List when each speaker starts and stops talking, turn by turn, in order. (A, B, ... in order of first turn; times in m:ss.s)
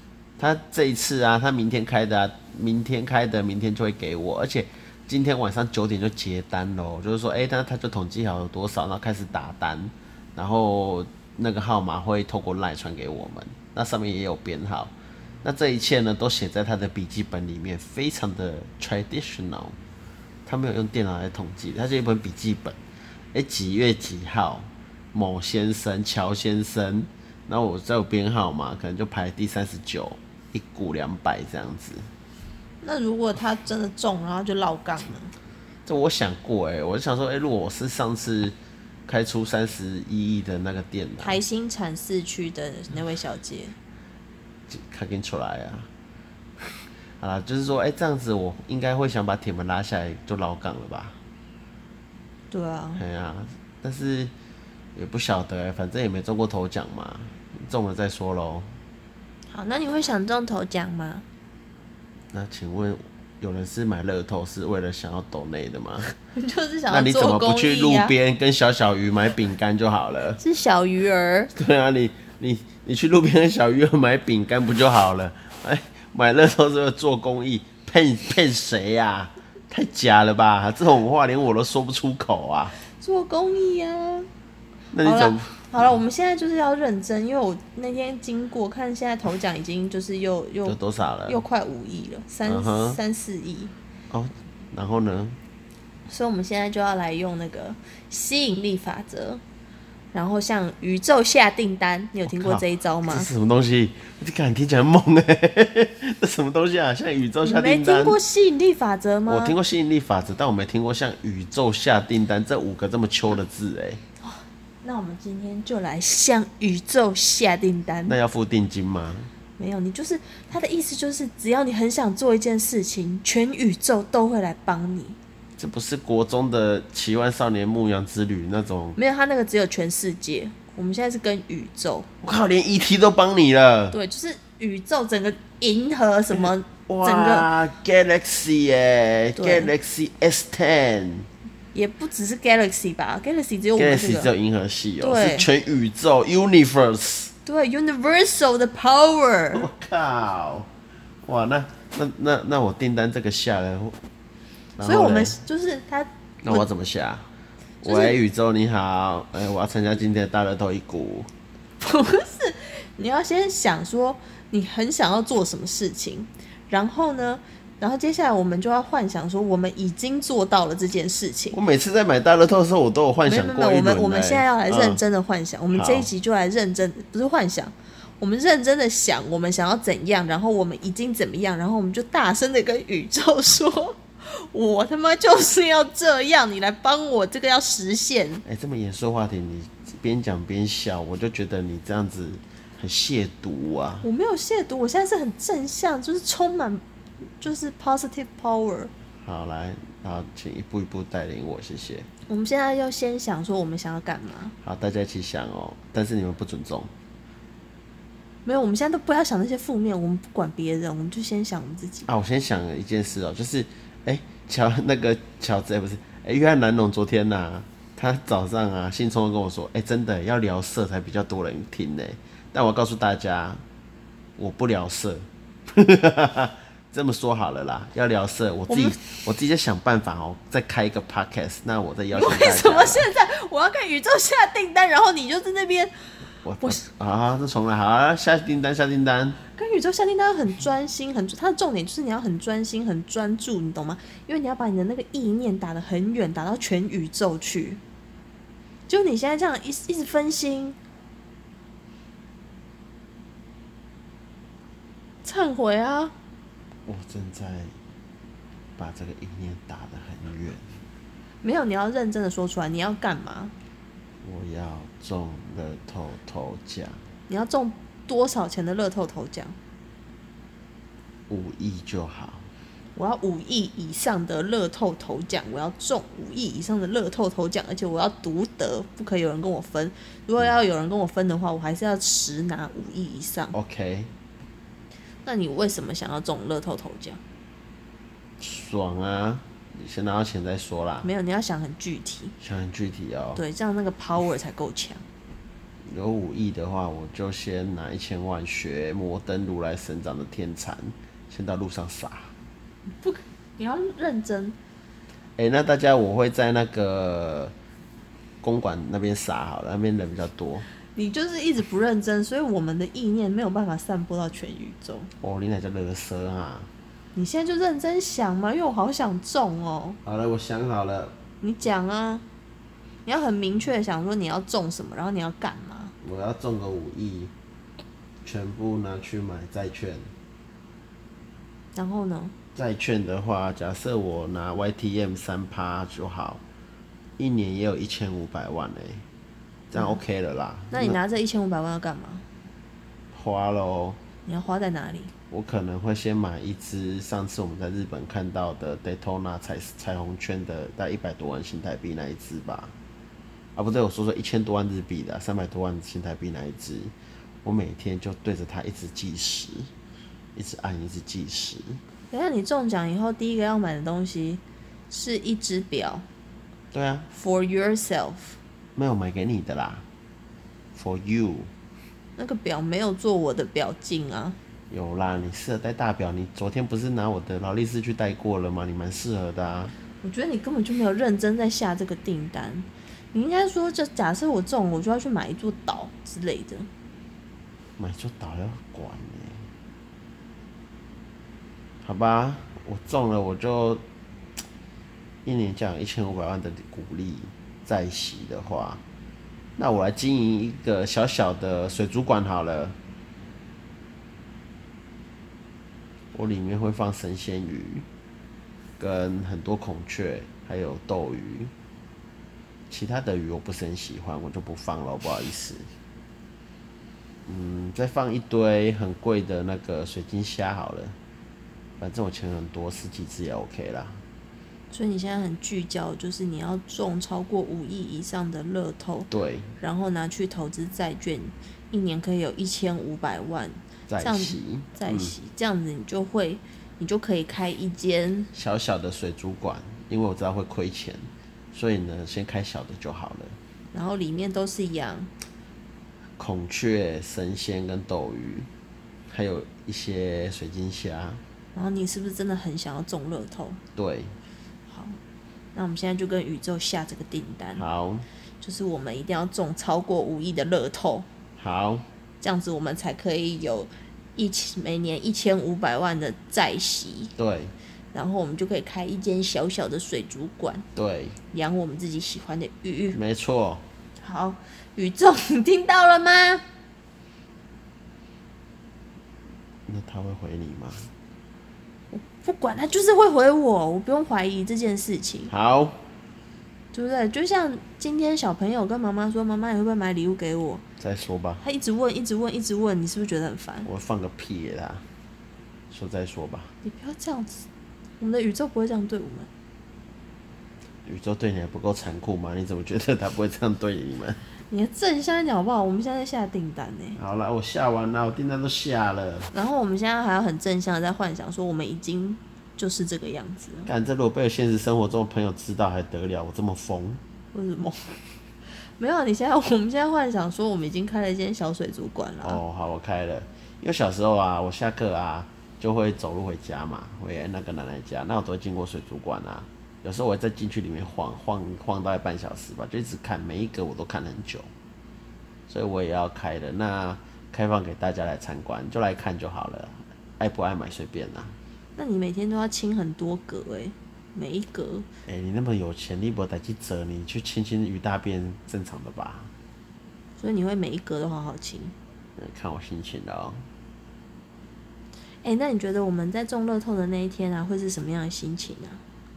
0:00.4-0:19.8 A
0:20.4-0:22.8 A
0:23.3-0:32.1 A
0:32.8-0:35.3 B
0:35.8-0:38.5 A
0:39.1-0:41.4 A
0:41.2-0:43.8 B
0:44.7-0:45.9 A
0:47.2-0:51.2 A
0:52.5-0:53.0 B
0:53.0-0:54.3 A
0:54.9-0:58.8 A
0:59.5-1:01.2 B
1:02.3-1:06.1 A
1:06.3-1:08.1 B
1:06.9-1:10.4 A
1:10.4-1:11.5 B
1:11.5-1:22.7 A
1:22.9-1:24.3 B
1:24.9-1:25.7 A
1:25.0-1:33.7 B
1:30.6-1:31.4 A
1:32.4-1:33.0 A
1:34.1-1:35.4 A
1:36.1-1:39.4 B
1:40.1-1:43.3 B
1:42.2-1:48.2 A
1:47.4-1:49.5 B
1:49.3-1:54.0 A
1:54.2-1:58.2 B
1:58.1-1:59.3 A
1:59.6-2:05.2 B
2:05.6-2:09.0 A
2:09.0-2:12.1 B
2:12.2-2:14.0 A
2:13.9-2:17.5 B
2:16.3-2:21.3 A
2:19.4-2:19.7 B
2:21.7-2:24.3 B
2:23.7-2:27.3 A
2:25.0-2:25.5 B
2:27.4-2:29.7 B
2:29.5-2:30.7 A
2:31.2-2:34.0 A
2:34.8-2:35.4 A
2:34.8-2:36.7 B
2:36.4-2:37.3 A
2:37.8-2:41.3 A
2:37.8-2:38.2 B
2:41.8-2:51.6 B
2:51.5-2:55.0 A
2:53.3-3:08.4 B
2:55.7-2:56.1 A
3:08.4-3:14.1 A
3:14.0-3:16.8 B
3:17.4-3:18.9 B
3:19.2-3:22.1 A
3:22.3-3:24.5 B
3:24.6-3:26.9 A
3:28.4-3:32.1 B
3:32.1-3:43.6 A
3:44.4-3:53.1 A
3:48.7-3:49.0 B
3:52.1-3:56.0 B
3:56.4-3:59.4 A
3:59.5-4:07.8 B
4:08.9-4:10.8 B
4:15.2-4:16.1 B
4:16.9-4:17.7 A
4:18.8-4:20.7 A
4:21.4-4:23.5 B
4:24.2-4:27.0 A
4:27.3-4:29.6 B
4:31.3-4:32.5 A
4:32.9-4:43.5 B
4:43.5-4:44.1 A
4:45.2-4:47.2 B
4:48.4-4:51.1 A
4:51.0-4:52.3 B
4:52.4-4:53.4 A
4:53.4-4:55.0 B
4:55.8-5:02.3 A
5:03.0-5:04.6 B
5:05.4-5:07.5 A
5:08.4-5:10.7 A
5:10.9-5:15.1 B
5:15.2-5:16.7 A
5:17.1-5:20.0 B
5:20.0-5:21.1 A
5:21.4-5:22.2 B
5:23.0-5:25.9 B
5:26.0-5:27.3 A
5:28.2-5:30.1 A
5:31.7-5:32.3 B
5:32.5-5:36.4 A
5:37.2-5:39.0 A
5:39.7-5:41.0 A
5:39.8-5:40.0 B
5:40.7-5:42.2 B
5:43.1-5:44.0 A
5:44.2-5:45.1 B
5:45.3-5:52.7 A
5:53.6-5:56.9 A
5:57.4-5:59.7 A
6:00.3-6:01.8 A
6:02.1-6:06.0 B
6:06.7-6:07.1 A
6:07.1-6:08.4 B
6:08.8-6:09.8 A
6:10.7-6:11.5 A
6:12.2-6:14.4 B
6:14.7-6:19.7 A
6:20.0-6:26.7 B
6:27.8-6:29.5 A
6:31.8-6:33.8 A
6:35.2-6:38.8 A
6:39.6-6:42.8 A
6:46.1-6:47.8 A
6:48.8-6:51.5 A
6:52.7-6:55.7 A
6:57.2-7:01.0 A
7:01.8-7:04.0 A
7:04.7-7:18.3 B
7:09.1-7:09.5 A
7:13.9-7:15.1 A
7:18.3-7:23.4 A
7:23.7-7:25.1 B
7:26.2-7:28.5 A
7:29.1-7:31.2 A
7:31.5-7:33.6 B
7:33.8-7:34.2 A
7:34.7-7:35.0 B
7:35.5-7:37.6 B
7:37.5-7:38.1 A
7:38.4-7:41.1 B
7:41.4-7:41.9 A
7:42.2-7:47.1 B
7:47.2-7:47.5 A
7:47.9-7:50.7 B
7:50.8-7:51.2 A
7:51.3-7:53.0 B
7:52.9-7:53.6 A
7:54.0-7:56.4 B
7:59.7-8:00.9 A
8:01.9-8:05.3 B
8:05.3-8:05.8 A
8:06.7-8:10.6 B
8:10.8-8:11.4 A
8:11.4-8:13.7 B
8:13.6-8:14.8 A
8:15.7-8:16.5 A
8:16.6-8:17.5 B
8:18.0-8:19.3 B
8:20.8-8:24.2 A
8:24.5-8:27.0 B
8:26.9-8:29.3 A
8:29.3-8:33.7 B
8:33.6-8:37.0 A
8:37.3-8:42.4 B
8:42.2-8:54.5 A
8:55.5-9:01.4 A
9:01.8-9:04.9 B
9:05.0-9:09.3 A
9:10.2-9:11.7 B
9:12.2-9:13.4 A
9:15.2-9:18.8 B